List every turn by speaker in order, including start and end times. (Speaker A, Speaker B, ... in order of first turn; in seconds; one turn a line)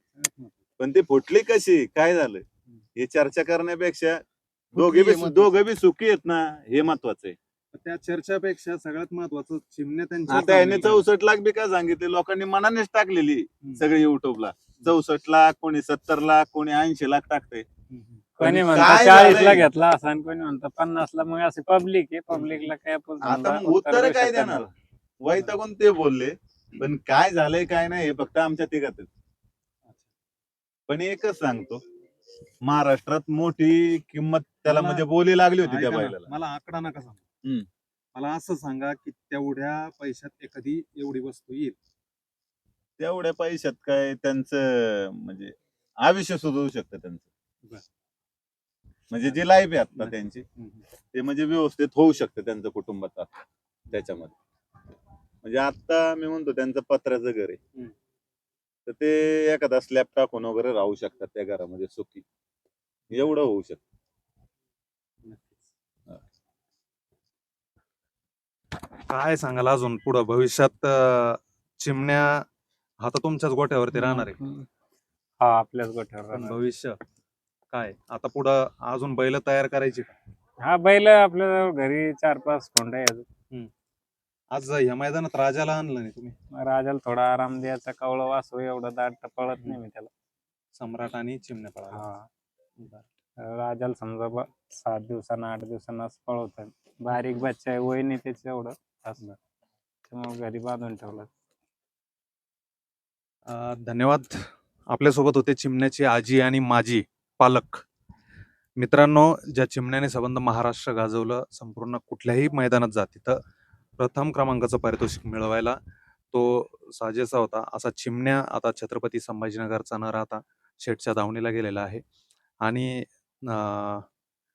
Speaker A: 0.2-0.5
Speaker B: 0.8-2.4
Speaker B: 3.0-4.2
Speaker A: 4.7-5.5
Speaker B: 4.7-7.3
Speaker A: 7.7-11.1
Speaker B: 10.3-17.6
Speaker A: 17.9-19.1
Speaker C: 18.4-24.7
Speaker B: 18.4-19.7
Speaker A: 22.3-22.6
Speaker B: 23.2-24.7
Speaker B: 25.2-29.1
Speaker B: 30.9-31.8
Speaker B: 32.6-36.3
Speaker A: 34.6-35.0
Speaker A: 35.6-37.2
Speaker A: 38.1-41.8
Speaker B: 43.0-47.3
Speaker B: 49.1-50.5
Speaker A: 49.9-50.9
Speaker B: 51.1-53.4
Speaker B: 53.9-54.3
Speaker B: 55.4-57.6
Speaker B: 58.9-62.2
Speaker B: 63.1-63.8
Speaker A: 65.2-65.7
Speaker A: 69.1-72.4
Speaker A: 73.0-74.4
Speaker C: 73.9-74.7
Speaker C: 75.4-76.6
Speaker A: 76.3-77.0
Speaker A: 77.7-80.1
Speaker C: 80.6-83.2
Speaker A: 84.5-86.3
Speaker C: 86.6-90.1
Speaker A: 90.7-92.1
Speaker C: 91.9-92.3
Speaker A: 92.8-93.0
Speaker C: 93.4-99.2
Speaker C: 100.1-101.3
Speaker A: 103.5-107.8
Speaker A: 108.8-113.4
Speaker A: 114.0-115.8
Speaker A: 116.3-122.0
Speaker A: 122.6-124.1